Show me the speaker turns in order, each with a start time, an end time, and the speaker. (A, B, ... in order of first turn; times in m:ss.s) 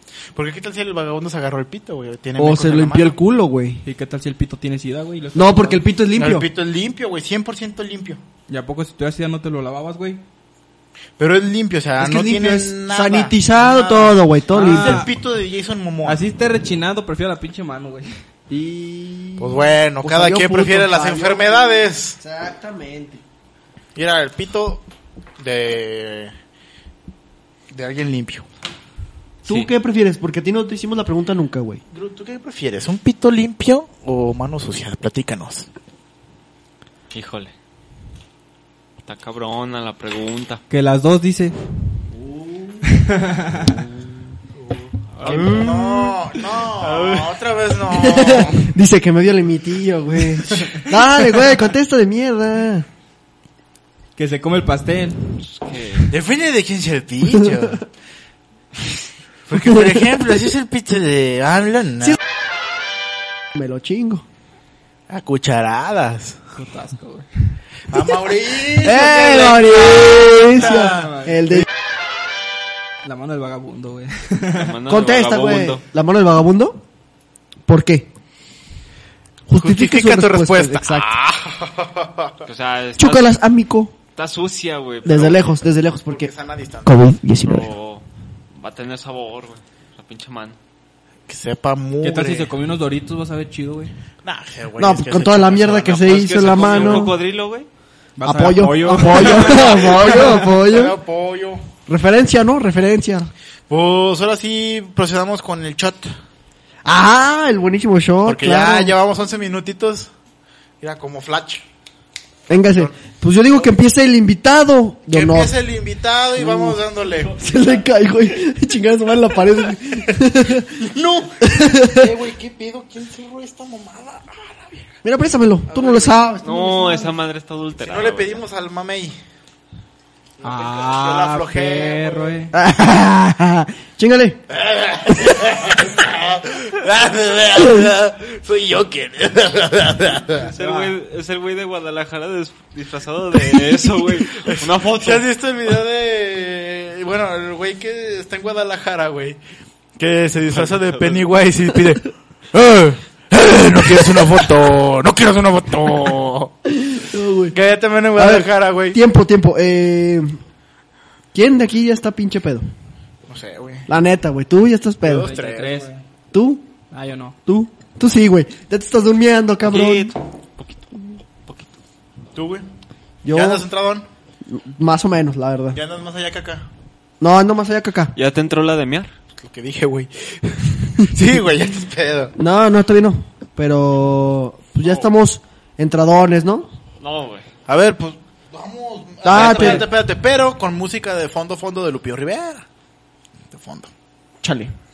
0:00.3-0:03.1 A
0:02.4-0:03.8 B
0:03.8-0:05.8 C
0:05.4-0:06.5 B
0:06.2-0:08.2 A
0:08.5-0:10.2 C
0:11.2-0:16.2 A
0:12.0-0:15.0 B
0:14.5-0:15.1 C
0:16.0-0:18.1 C
0:18.5-0:23.2 B
0:19.4-0:22.2 A
0:24.0-0:24.8 A
0:25.4-0:26.3 A
0:27.7-0:28.5 A
0:29.4-0:31.8 B
0:31.9-0:35.7 A
0:37.1-0:37.5 D
0:39.0-0:40.6 D
0:40.7-0:41.6 C
0:42.3-0:42.6 B
0:42.9-0:43.7 C
0:44.6-0:48.7 A
0:45.2-0:45.8 D
0:45.2-0:46.2 B
0:46.6-0:47.4 D
0:47.9-0:52.9 B
0:50.5-0:50.8 A
0:54.2-0:55.3 C
0:55.4-0:56.1 D
0:56.1-0:57.8 A
0:59.5-1:02.2 A
1:03.6-1:04.2 B
1:05.1-1:06.4 A
1:06.6-1:07.3 C
1:07.9-1:11.1 A
1:08.8-1:11.7 B
1:10.6-1:11.4 C
1:13.0-1:14.8 C
1:14.5-1:15.8 D
1:14.9-1:16.8 B
1:17.7-1:18.1 B
1:19.5-1:21.1 B
1:19.5-1:22.4 A
1:22.4-1:23.4 D
1:23.0-1:23.9 B
1:24.2-1:25.5 D
1:25.0-1:26.3 B
1:25.1-1:25.5 A
1:26.1-1:27.0 A
1:26.8-1:27.7 B
1:27.4-1:30.6 D
1:31.3-1:32.5 A
1:32.0-1:33.9 C
1:34.2-1:37.1 A
1:34.8-1:37.2 B
1:36.0-1:37.7 D
1:38.2-1:40.0 C
1:38.2-1:41.0 B
1:39.0-1:41.7 A
1:41.9-1:43.3 B
1:43.7-1:46.2 A
1:46.8-1:49.0 B
1:48.2-1:50.1 A
1:50.8-1:51.6 A
1:52.5-1:55.5 B
1:52.5-1:53.0 A
1:55.1-1:57.4 A
1:56.4-2:00.8 B
2:00.7-2:04.9 A
2:01.4-2:02.1 B
2:05.0-2:07.1 B
2:05.7-2:06.2 A
2:06.4-2:08.4 D
2:07.8-2:09.2 A
2:10.4-2:12.4 A
2:10.4-2:12.5 C
2:12.5-2:14.4 B
2:14.5-2:20.5 A
2:20.4-2:25.2 D
2:20.6-2:20.9 C
2:24.3-2:29.4 A
2:30.0-2:36.6 A
2:30.5-2:31.3 D
2:36.8-2:37.6 B
2:37.5-2:39.0 A
2:38.2-2:40.4 B
2:41.3-2:42.7 B
2:43.3-2:43.9 A
2:43.9-2:45.3 B
2:45.0-2:45.9 A
2:45.2-2:46.0 C
2:46.3-2:46.7 B
2:46.9-2:47.4 C
2:47.5-2:50.1 B
2:49.6-2:51.7 D
2:52.4-2:52.7 A
2:53.2-2:53.6 B
2:53.3-2:54.1 A
2:54.5-2:55.8 B
2:55.7-2:56.7 A
2:57.2-2:58.1 B
2:58.2-2:59.1 D
2:59.4-3:02.3 A
3:02.4-3:06.7 B
3:07.0-3:07.5 D
3:07.7-3:12.6 A
3:09.2-3:09.9 B
3:09.3-3:09.8 D
3:13.5-3:13.9 A
3:14.4-3:14.7 B